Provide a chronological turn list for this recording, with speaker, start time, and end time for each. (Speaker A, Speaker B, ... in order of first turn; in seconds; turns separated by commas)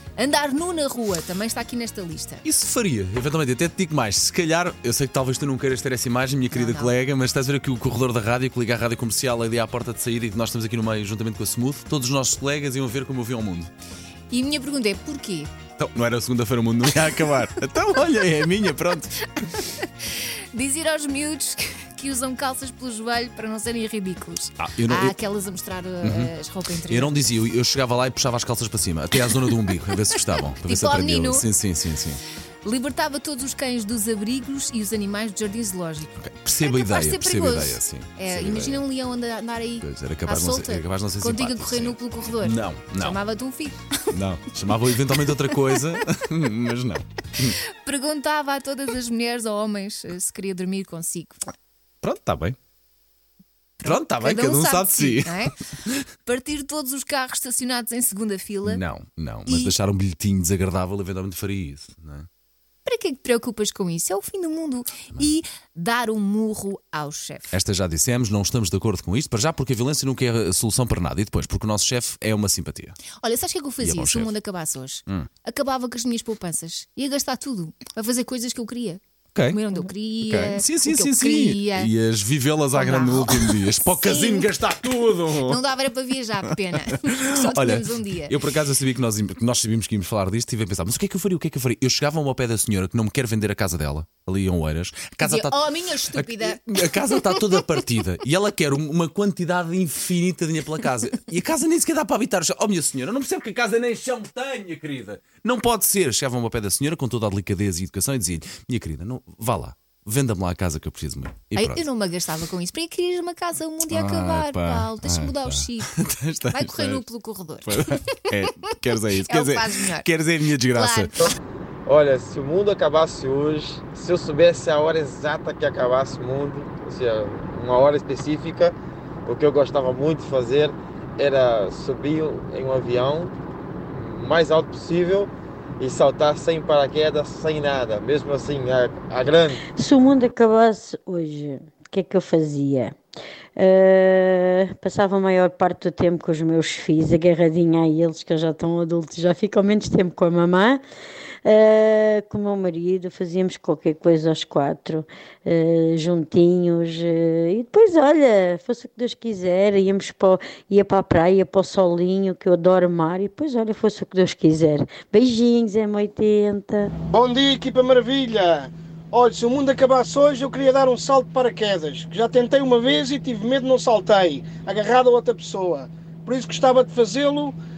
Speaker A: 0.2-2.4, Speaker B: 2.4-13.7, Speaker A: 6.5-7.0, Speaker A: 14.3-15.5, Speaker B: 15.8-19.2, Speaker A: 19.4-27.2, Speaker B: 24.6-25.1, Speaker B: 26.0-26.3, Speaker B: 26.9-32.2, Speaker A: 30.6-31.4, Speaker A: 32.6-43.8, Speaker B: 36.2-38.9, Speaker B: 39.8-43.2, Speaker B: 44.1-47.6, Speaker A: 47.8-51.4, Speaker B: 52.0-52.5, Speaker A: 53.8-55.5, Speaker B: 53.8-56.0, Speaker A: 56.2-58.8, Speaker B: 58.6-62.3, Speaker A: 59.5-59.7, Speaker A: 62.8-67.5, Speaker B: 67.5-73.0, Speaker A: 73.2-81.9, Speaker B: 73.8-74.3, Speaker B: 79.3-85.6, Speaker A: 82.7-84.5, Speaker A: 85.4-88.4, Speaker B: 87.1-111.8, Speaker A: 95.2-96.6, Speaker A: 97.1-97.5, Speaker A: 111.5-115.9, Speaker B: 113.9-117.0, Speaker A: 116.5-118.0, Speaker B: 117.6-121.1, Speaker A: 119.1-120.1, Speaker A: 120.7-121.1, Speaker C: 121.8-128.7, Speaker C: 129.3-133.3, Speaker C: 133.9-135.3, Speaker C: 135.8-139.6, Speaker D: 139.8-142.9, Speaker D: 143.6-150.8, Speaker D: 151.4-166.9, Speaker E: 167.1-177.6